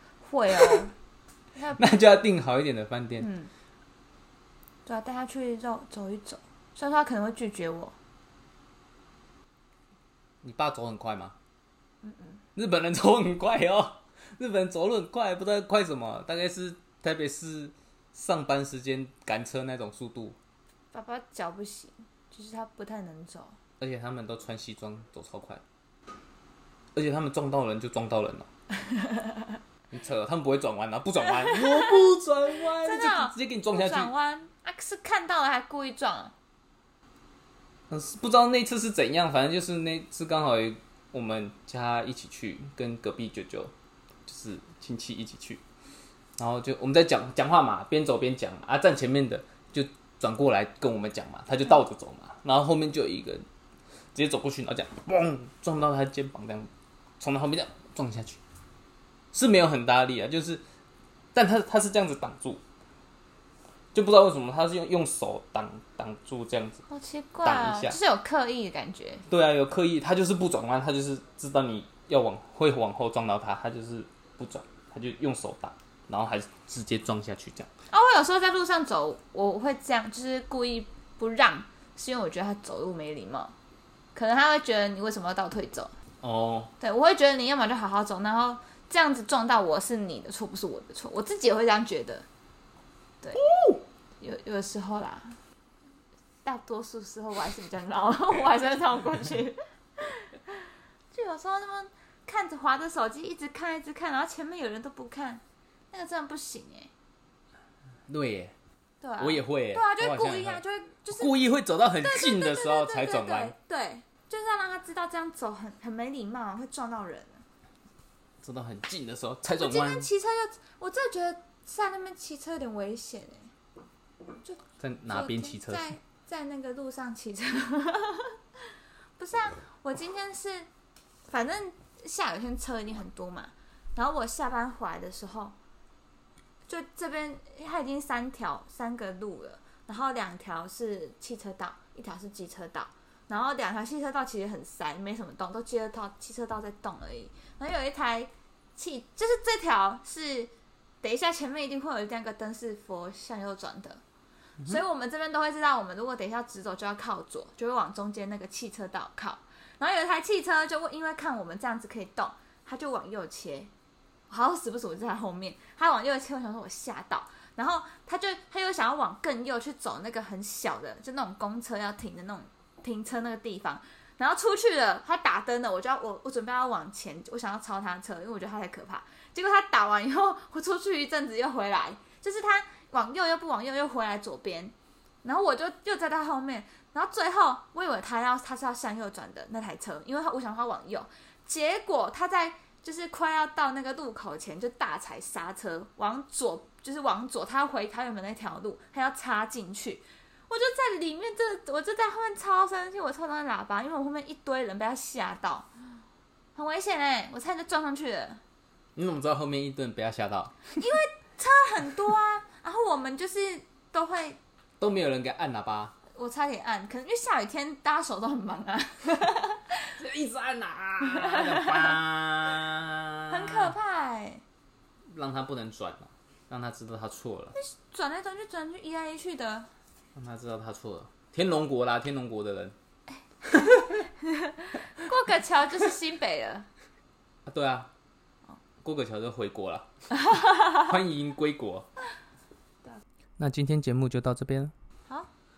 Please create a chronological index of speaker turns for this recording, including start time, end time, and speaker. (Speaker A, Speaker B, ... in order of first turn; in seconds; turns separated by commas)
Speaker A: 0.2-0.9, Speaker B: 1.7-3.3, Speaker A: 3.2-3.5, Speaker A: 4.8-8.0, Speaker B: 10.4-11.3, Speaker A: 12.1-12.3, Speaker B: 12.6-20.4, Speaker A: 20.9-23.6, Speaker B: 23.8-25.6, Speaker B: 26.9-28.5, Speaker A: 28.9-29.3, Speaker B: 29.9-34.1, Speaker A: 31.2-32.1, Speaker A: 32.8-36.3, Speaker B: 37.9-43.7, Speaker B: 44.3-45.6, Speaker B: 46.4-53.4, Speaker B: 54.1-58.4, Speaker B: 59.3-60.6, Speaker B: 61.3-62.6, Speaker B: 63.9-66.8, Speaker A: 66.9-69.2, Speaker B: 67.4-68.0, Speaker B: 69.3-77.7, Speaker A: 77.9-83.5, Speaker A: 84.1-85.9, Speaker B: 86.2-86.7, Speaker A: 86.8-92.3, Speaker B: 93.3-93.8, Speaker A: 94.2-95.4, Speaker A: 96.4-106.9, Speaker B: 108.1-108.5, Speaker A: 109.0-111.3, Speaker B: 109.2-113.5, Speaker A: 112.0-117.4, Speaker B: 118.4-120.1, Speaker A: 119.5-123.5, Speaker A: 124.4-130.7, Speaker B: 124.8-125.9, Speaker A: 131.3-135.6, Speaker A: 136.7-154.0, Speaker A: 154.6-163.7, Speaker A: 164.3-205.7, Speaker A: 206.5-208.4, Speaker B: 208.9-210.7, Speaker A: 210.8-214.4, Speaker B: 214.8-215.9, Speaker A: 216.1-219.9, Speaker B: 219.9-223.7, Speaker A: 221.0-222.0, Speaker A: 223.3-224.4, Speaker B: 225.1-227.6, Speaker A: 227.6-229.7, Speaker B: 230.1-232.8, Speaker A: 233.5-236.7, Speaker B: 237.4-237.9, Speaker B: 238.8-239.9, Speaker B: 240.6-241.9, Speaker B: 243.4-244.7